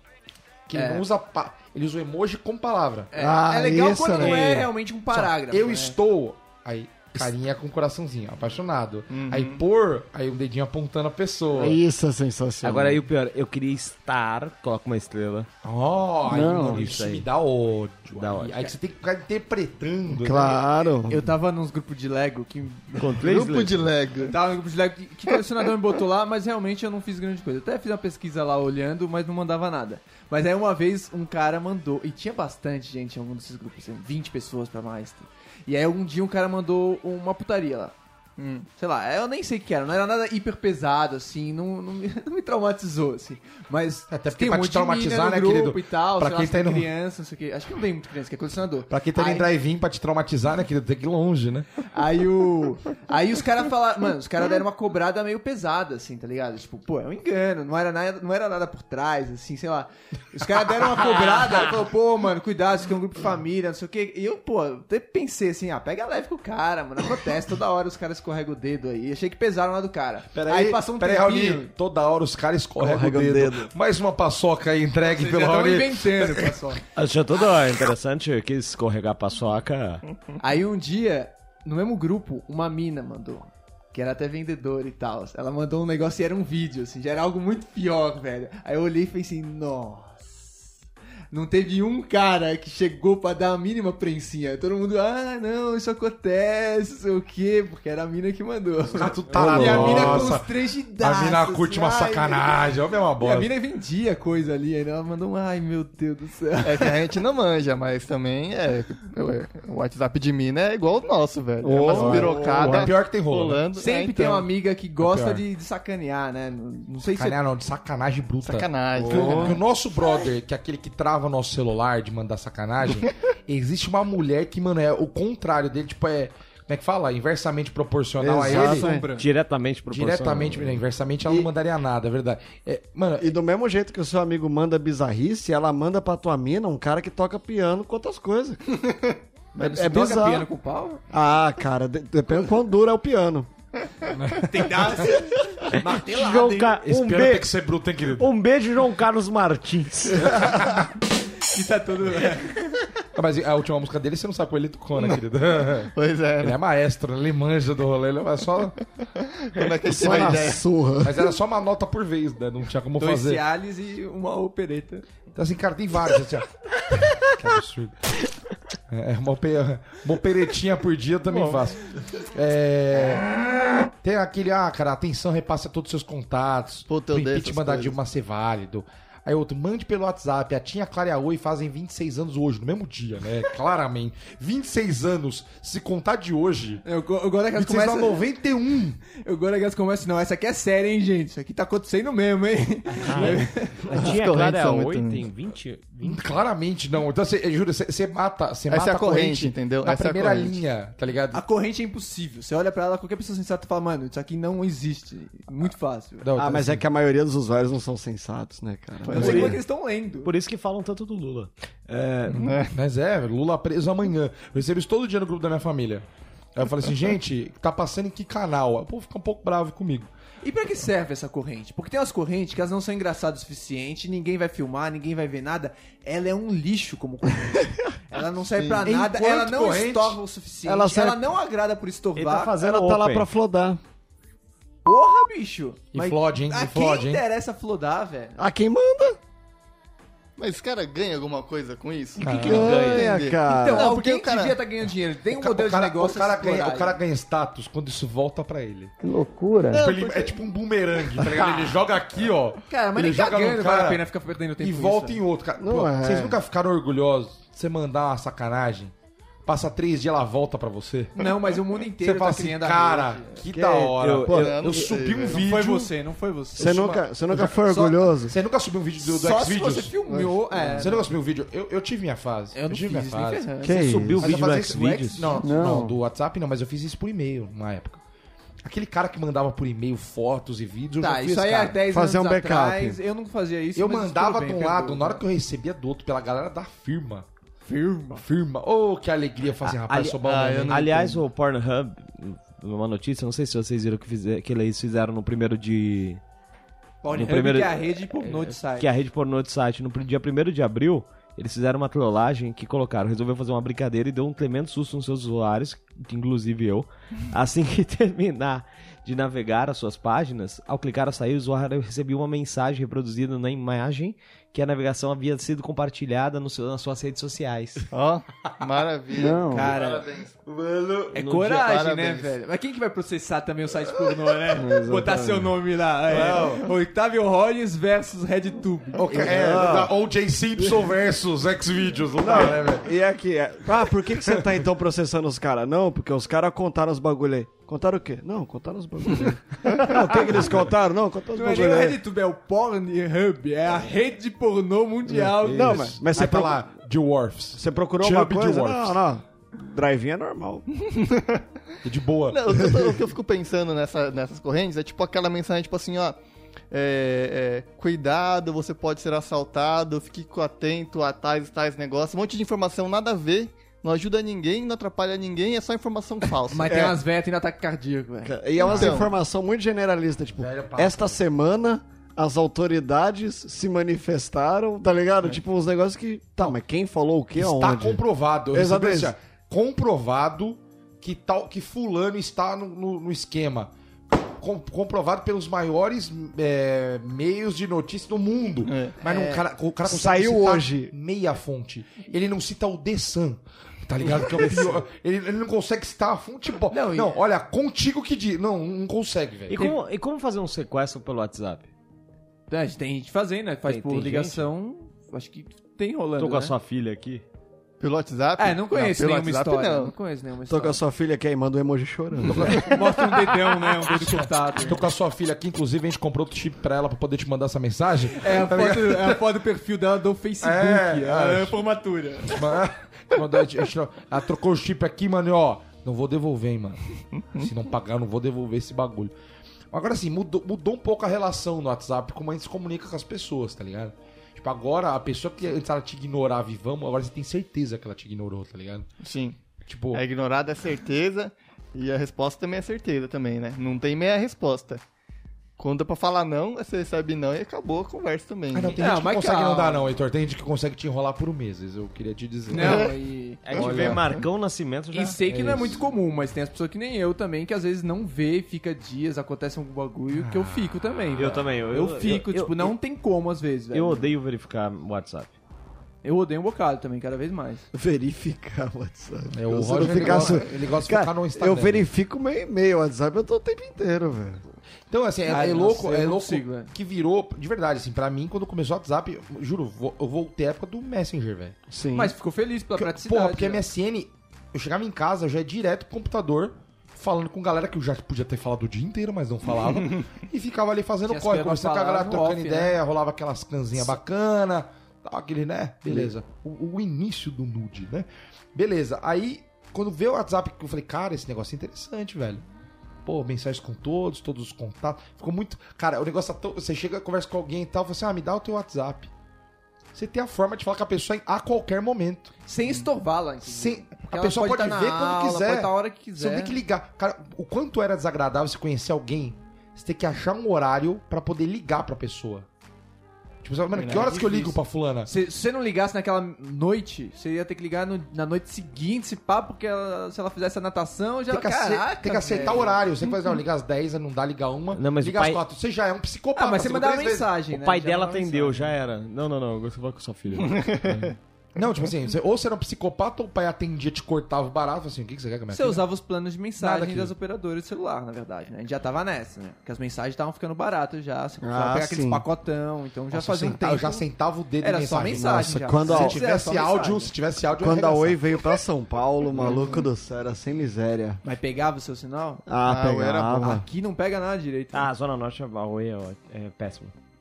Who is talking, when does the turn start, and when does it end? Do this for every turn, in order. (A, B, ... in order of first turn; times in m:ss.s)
0:00.7-0:03.1 A
0:00.7-0:01.1 B
0:03.1-0:06.0 B
0:03.1-0:04.7 C
0:04.2-0:04.5 A
0:05.1-0:11.8 A
0:09.1-0:09.6 D
0:11.5-0:13.0 C
0:12.6-0:15.5 E
0:15.6-0:20.6 A
0:16.3-0:17.0 C
0:16.3-0:17.3 E
0:18.1-0:18.7 E
0:20.1-0:21.3 C
0:21.1-0:23.2 B
0:23.0-0:23.9 E
0:23.2-0:24.4 D
0:24.2-0:37.9 B
0:38.4-0:38.7 D
0:38.8-0:49.5 B
0:44.1-0:46.9 A
0:48.9-0:51.7 A
0:51.9-1:11.7 B
1:10.3-1:16.6 A
1:12.8-1:13.7 C
1:15.0-1:16.8 B
1:17.0-1:20.0 E
1:20.4-1:30.6 B
1:31.3-1:42.6 B
1:39.0-1:43.5 A
1:39.3-1:40.3 C
1:43.2-1:47.0 B
1:46.6-1:54.5 D
1:51.6-1:52.9 C
1:51.8-1:53.6 A
1:53.8-1:57.4 B
1:55.0-1:55.4 A
1:57.0-2:08.9 A
1:58.4-1:59.6 D
1:59.0-1:59.6 C
2:08.2-2:09.1 C
2:08.5-2:09.3 B
2:09.2-2:10.8 E
2:09.9-2:13.3 A
2:13.2-2:18.6 C
2:18.8-2:19.2 D
2:19.6-2:21.0 B
2:19.6-2:20.5 C
2:21.1-2:23.5 C
2:24.2-2:25.2 A
2:24.4-2:26.8 B
2:25.9-2:27.5 E
2:26.8-2:28.3 A
2:28.2-2:30.5 E
2:30.4-2:30.7 A
2:31.4-2:32.7 B
2:33.1-2:38.8 A
2:35.9-2:36.6 D
2:39.4-2:40.6 D
2:39.8-2:41.4 C
2:41.0-2:43.4 A
2:43.0-2:45.0 B
2:45.4-2:46.5 A
2:47.1-2:48.0 A
2:48.9-2:51.8 A
2:52.3-2:53.3 A
2:54.0-3:06.8 A
2:56.9-2:58.0 D
3:06.8-3:08.2 B
3:07.5-3:09.0 A
3:09.1-3:14.0 B
3:13.0-3:16.3 E
3:13.9-3:15.3 D
3:16.0-3:21.4 A
3:18.7-3:20.6 D
3:21.3-3:26.3 B
3:26.2-3:26.8 A
3:26.4-3:29.6 C
3:29.0-3:29.6 D
3:29.1-3:30.3 B
3:29.2-3:29.6 E
3:30.2-3:32.5 E
3:32.3-3:40.1 A
3:32.4-3:32.7 D
3:40.4-3:52.5 B
3:48.6-3:48.9 D
3:48.8-3:50.2 A
3:50.6-3:51.3 C
3:52.2-3:53.3 E
3:52.6-3:53.8 C
3:54.8-3:58.4 B
3:55.9-3:57.2 A
3:58.4-3:59.2 C
4:00.4-4:04.6 D
4:02.2-4:03.1 E
4:02.2-4:02.7 A
4:02.5-4:03.9 C
4:03.5-4:07.0 B
4:05.3-4:08.9 A
4:09.0-4:10.0 C
4:09.7-4:14.0 A
4:12.7-4:15.2 B
4:14.6-4:18.9 A
4:15.6-4:16.4 C
4:19.5-4:21.3 A
4:21.1-4:23.2 B
4:22.0-4:25.9 A
4:23.5-4:24.6 C
4:24.0-4:24.8 E
4:24.3-4:25.4 D
4:25.3-4:26.8 B
4:26.6-4:27.6 A
4:26.6-4:28.4 C
4:27.7-4:28.0 B
4:28.2-4:29.9 A
4:29.0-4:31.1 B
4:30.8-4:33.6 A
4:32.5-4:35.5 B
4:33.6-4:34.3 C
4:33.7-4:35.4 E
4:34.2-4:38.0 A
4:35.4-4:36.0 C
4:38.6-4:41.8 A
4:41.0-4:45.2 B
4:41.9-4:43.0 C
4:43.8-4:47.3 A
4:47.7-4:48.2 B
4:48.2-4:50.8 A
4:49.6-4:56.2 E
4:50.2-4:51.2 D
4:57.0-4:58.9 B
4:57.1-5:17.9 E
5:17.9-5:20.4 D
5:19.2-5:19.7 C
5:19.5-5:20.1 B
5:20.4-5:21.2 A
5:21.1-5:29.3 B
5:21.2-5:21.6 E
5:21.4-5:22.3 D
5:24.6-5:25.5 C
5:26.1-5:26.7 A
5:29.0-5:32.9 A
5:29.1-5:29.9 C
5:32.2-5:42.0 C
5:41.4-5:46.0 B
5:45.5-5:46.6 C
5:45.6-5:45.9 E
5:45.7-5:49.0 A
5:47.6-5:50.6 C
5:50.9-5:51.5 D
5:51.8-5:52.6 A
5:52.3-5:56.2 D
5:56.7-6:06.8 D
6:06.5-6:08.4 B
6:06.6-6:07.0 C
6:08.2-6:18.0 C
6:08.6-6:09.1 D
6:10.4-6:11.2 A
6:17.4-6:23.7 A
6:18.5-6:19.1 C
6:24.4-6:39.6 A
6:28.6-6:29.0 D
6:29.0-6:29.4 B
6:29.8-6:30.9 C
6:36.7-6:37.1 B
6:39.5-6:41.7 E
6:42.5-6:46.5 B
6:43.7-6:44.4 E
6:46.2-6:47.2 E
6:47.8-6:49.9 D
6:48.4-6:50.8 B
6:50.5-6:52.6 C
6:52.2-6:53.0 A
6:52.6-6:54.8 B
6:53.8-6:59.2 A
6:58.1-7:02.4 B
7:00.4-7:01.6 A
7:02.2-7:06.8 A
7:07.4-7:09.1 A
7:09.7-7:18.9 A
7:19.0-7:19.4 D
7:19.7-7:20.0 A
7:19.9-7:24.8 D
7:25.6-7:28.8 D
7:28.5-7:32.9 A
7:28.8-7:30.0 B
7:32.5-7:34.0 B
7:32.5-7:32.9 D
7:33.4-7:35.8 E
7:33.5-7:34.2 D
7:33.6-7:34.0 A
7:34.9-7:44.1 B
7:35.3-7:35.8 A
7:40.1-7:41.2 A
7:41.2-7:42.7 E
7:43.7-7:45.3 E
7:46.0-7:47.7 B
7:47.7-7:54.4 C
7:49.3-7:51.9 A
7:49.9-7:50.3 B
7:54.9-8:01.6 A
7:55.2-7:56.7 B
8:01.7-8:02.1 C
8:01.9-8:03.6 B
8:02.8-8:22.4 A
8:11.1-8:12.8 B
8:23.0-8:29.1 A
8:29.9-8:32.3 A
8:32.5-8:36.6 B
8:33.4-8:42.5 A
8:43.4-8:45.1 A
8:43.8-8:44.4 D
8:43.8-8:52.8 B
8:51.3-8:57.3 A
8:54.7-8:55.4 E
8:56.4-8:58.8 B
8:57.5-9:01.1 E
9:00.4-9:01.1 D
9:01.6-9:05.8 A
9:05.5-9:14.1 B
9:06.6-9:07.1 A
9:11.4-9:12.2 C
9:13.1-9:18.2 A
9:14.6-9:17.1 B
9:15.2-9:16.2 C
9:17.6-9:21.2 C
9:19.4-9:19.8 D
9:21.2-9:22.4 B
9:22.5-9:23.6 C
9:22.6-9:23.6 D
9:23.4-9:24.9 B
9:24.7-9:26.9 E